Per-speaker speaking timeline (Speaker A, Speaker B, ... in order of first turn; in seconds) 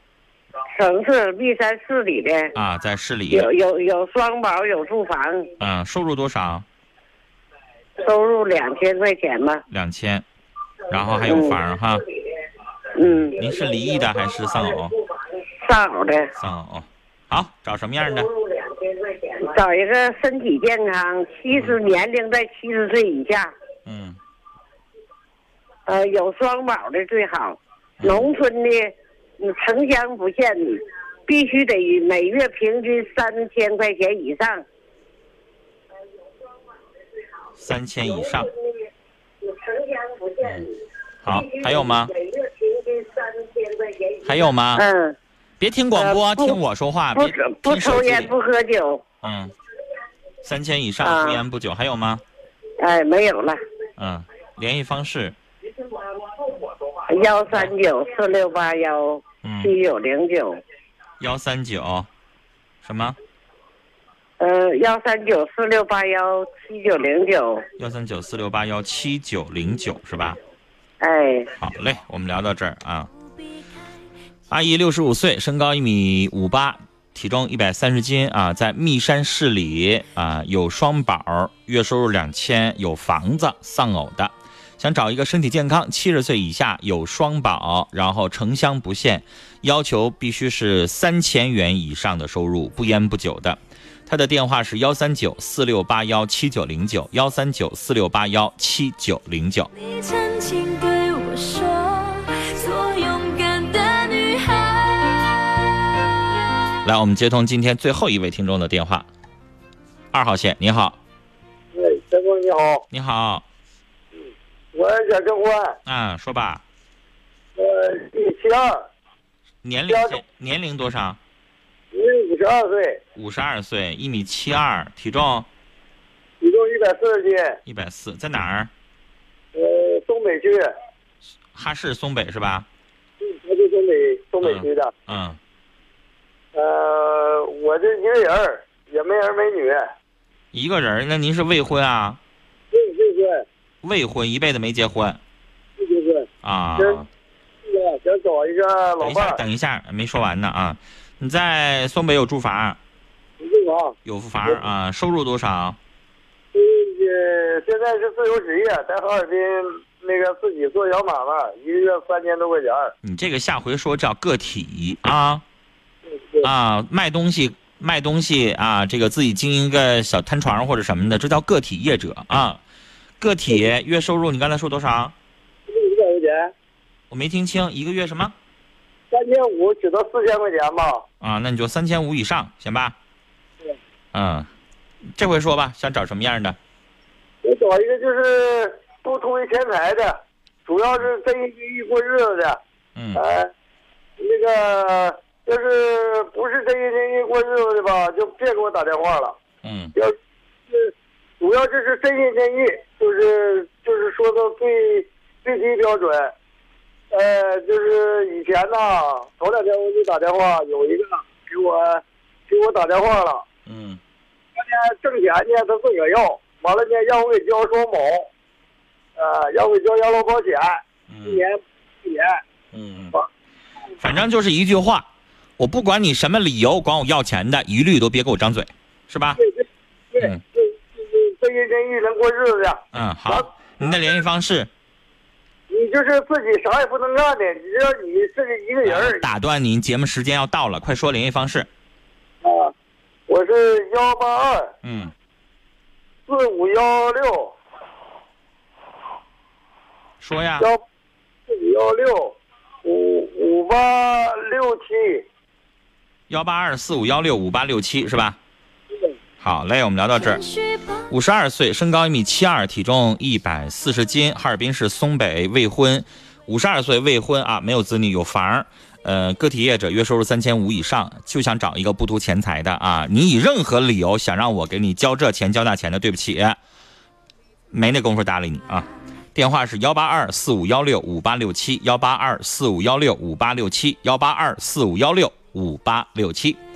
Speaker A: 0.8-2.5, 3.3-5.5, 8.0-9.6, 11.2-11.6, 13.0-13.4, 15.6-16.3, 19.1-23.5, 25.9-34.6, 39.5-40.5, 41.4-42.1, 44.8-45.2, 46.0-46.6, 47.2-49.0, 51.0-51.4, 52.8-53.6, 57.1-60.6, 64.4-67.6, 71.0-71.5
Speaker B: 2.5-3.5, 5.6-6.7, 9.7-10.2, 10.9-12.0, 13.0-15.0, 16.4-18.3, 21.5-21.8, 23.9-24.2, 28.0-28.3, 37.6-38.5, 40.4-40.7, 41.2-42.1, 44.2-44.9, 45.6-48.4, 49.2-49.5, 50.4-52.2, 54.0-55.4, 59.4-59.7, 61.2-62.1, 62.8-63.2, 67.8-70.4, 71.6-73.1, 74.5-99.7, 106.8-109.1, 110.1-111.0, 112.9-113.5, 115.9-116.6, 119.6-121.2, 123.2-125.5, 127.7-128.7, 131.5-132.7, 134.4-135.4, 140.5-142.2, 143.8-145.2, 146.4-147.1, 149.0-152.8, 154.1-155.8, 163.0-165.4, 166.4-172.6, 173.2-175.2, 177.1-178.3, 181.2-183.0, 184.1-184.5, 185.1-186.6, 192.9-193.2, 199.6-199.9, 213.7-214.0, 221.1-221.4, 222.7-223.2, 224.0-229.4, 232.9-234.7, 238.8-241.7, 244.8-245.1, 250.2-250.7, 256.3-258.4, 259.4-260.4, 261.1-276.6, 277.7-286.6
Speaker C: 99.7-106.2, 260.2-261.1
Speaker D: 111.7-112.8, 114.7-115.8, 117.6-118.8, 119.9-120.2, 121.9-123.0, 126.4-127.6, 129.6-130.7, 133.2-134.9, 136.6-139.9, 142.7-143.4, 145.8-146.3, 147.6-149.4, 153.4-154.0, 156.5-162.9, 166.2-166.5, 175.7-176.5, 179.1-181.0, 187.4-192.6, 193.2-193.5, 194.2-199.3, 200.7-206.3, 207.1-213.4, 214.6-218.3, 219.2-222.4, 229.4-233.4, 235.7-239.2, 242.4-242.7, 243.3-244.7, 246.3-247.5, 251.5-255.2